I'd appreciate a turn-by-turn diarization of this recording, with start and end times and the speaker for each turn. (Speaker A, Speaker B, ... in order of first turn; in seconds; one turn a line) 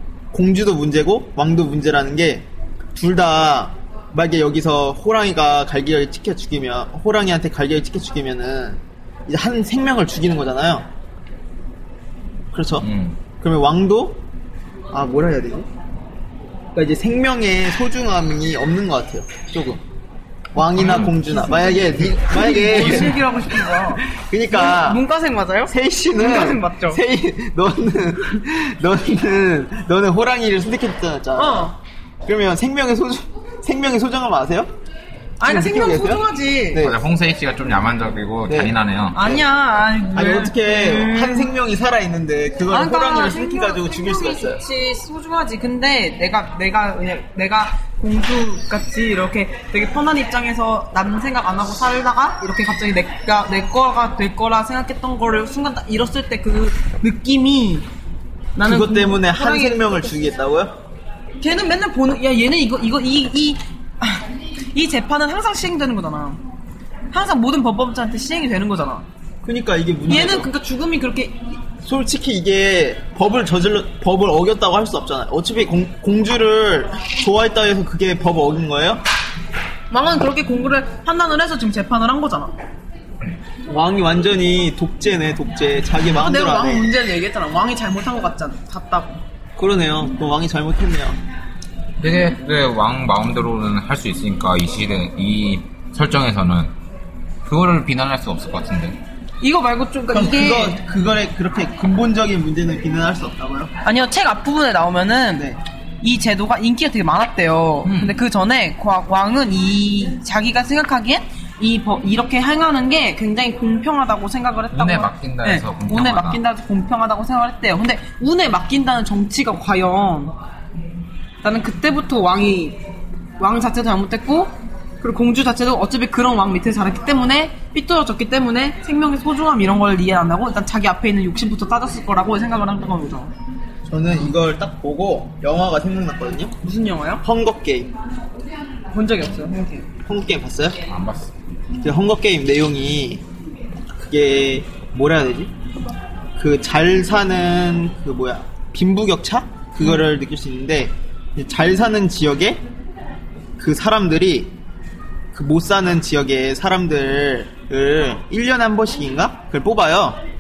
Speaker A: 0.3-10.9
Speaker A: 12.5-14.2
Speaker B: 12.8-13.2
Speaker A: 14.9-15.7
Speaker A: 16.7-19.8
Speaker A: 20.5-23.2
Speaker B: 20.8-21.1
Speaker C: 21.1-27.0
Speaker B: 22.8-23.1
Speaker A: 23.8-25.0
Speaker A: 25.7-31.7
Speaker C: 31.4-31.8
Speaker A: 32.2-34.7
Speaker C: 35.4-36.8
Speaker A: 35.4-37.0
Speaker B: 36.8-39.3
Speaker A: 38.5-39.4
Speaker C: 39.1-41.5
Speaker A: 40.1-44.6
Speaker C: 42.7-57.9
Speaker C: 58.6-60.1
Speaker A: 58.6-60.8
Speaker C: 61.4-66.4
Speaker C: 67.1-69.1
Speaker A: 69.4-70.5
Speaker C: 70.1-71.4
Speaker A: 71.8-79.0
Speaker C: 79.9-82.5
Speaker A: 83.7-86.9
Speaker C: 86.1-89.2
Speaker A: 89.6-91.2
Speaker B: 92.0-96.7
Speaker B: 97.5-99.0
Speaker C: 99.4-100.8
Speaker A: 100.1-103.7
Speaker C: 103.8-105.5
Speaker C: 106.0-120.3
Speaker B: 107.8-108.2
Speaker B: 114.7-116.4
Speaker C: 121.4-122.8
Speaker C: 123.4-133.3
Speaker A: 133.8-136.6
Speaker C: 136.6-137.2
Speaker A: 137.2-137.9
Speaker C: 138.9-139.9
Speaker A: 140.1-140.8
Speaker B: 140.9-141.3
Speaker A: 141.8-143.2
Speaker A: 143.9-145.5
Speaker A: 146.4-152.6
Speaker A: 153.6-154.5
Speaker A: 155.3-160.2